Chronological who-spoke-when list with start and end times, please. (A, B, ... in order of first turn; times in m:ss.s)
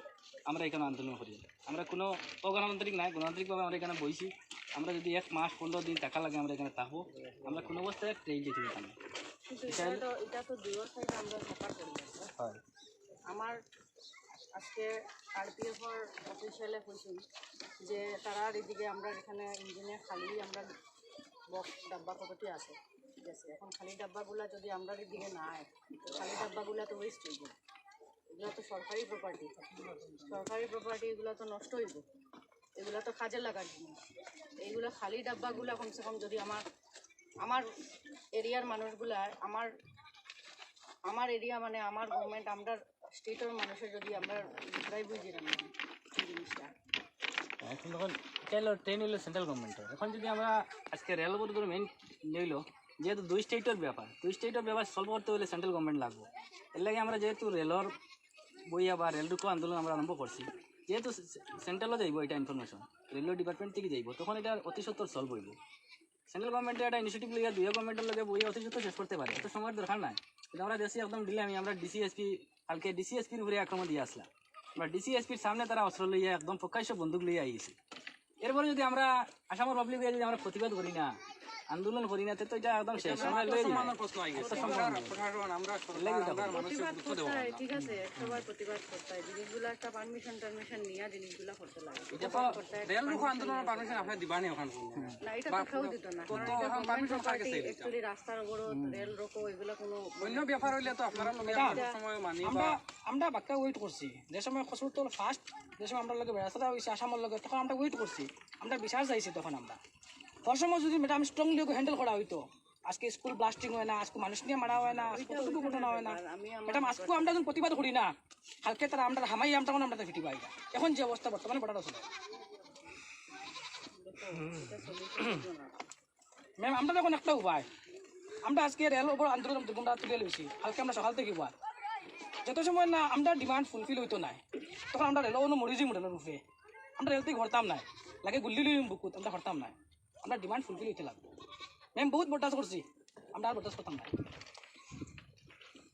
0:00.5-0:09.0 A
0:09.5-0:12.3 B
0:09.7-0:10.0 A
0:13.3-0:13.5 B
0:14.4-0:17.2 B
0:17.8-0:20.7 B
0:21.5-0:27.5 B
0:28.3-0:32.0 B
0:32.8-0:34.0 B
0:34.6-0:36.6 B
0:38.3-0:39.7 B
0:41.1-0:46.7 B
0:47.6-0:57.9 A
0:58.7-1:05.6 A
1:06.3-1:17.8 A
1:18.4-1:21.1 A
1:21.7-1:25.2 A
1:23.0-1:24.9 B
1:23.0-1:27.7 C
1:25.9-1:26.7 A
1:26.5-1:34.2 B
1:27.7-1:28.4 A
1:32.1-1:32.5 A
1:32.2-1:37.9 C
1:35.2-1:42.0 B
1:38.8-1:39.0 A
1:40.2-1:42.8 C
1:41.4-1:41.8 D
1:42.4-1:49.8 D
1:50.4-1:58.1 D
1:55.1-1:57.6 B
1:58.6-2:02.1 D
2:03.9-2:05.8 B
2:06.6-2:07.7 D
2:08.4-2:11.5 D
2:12.4-2:14.4 D
2:14.9-2:16.4 D
2:17.0-2:21.2 D
2:22.0-2:24.1 D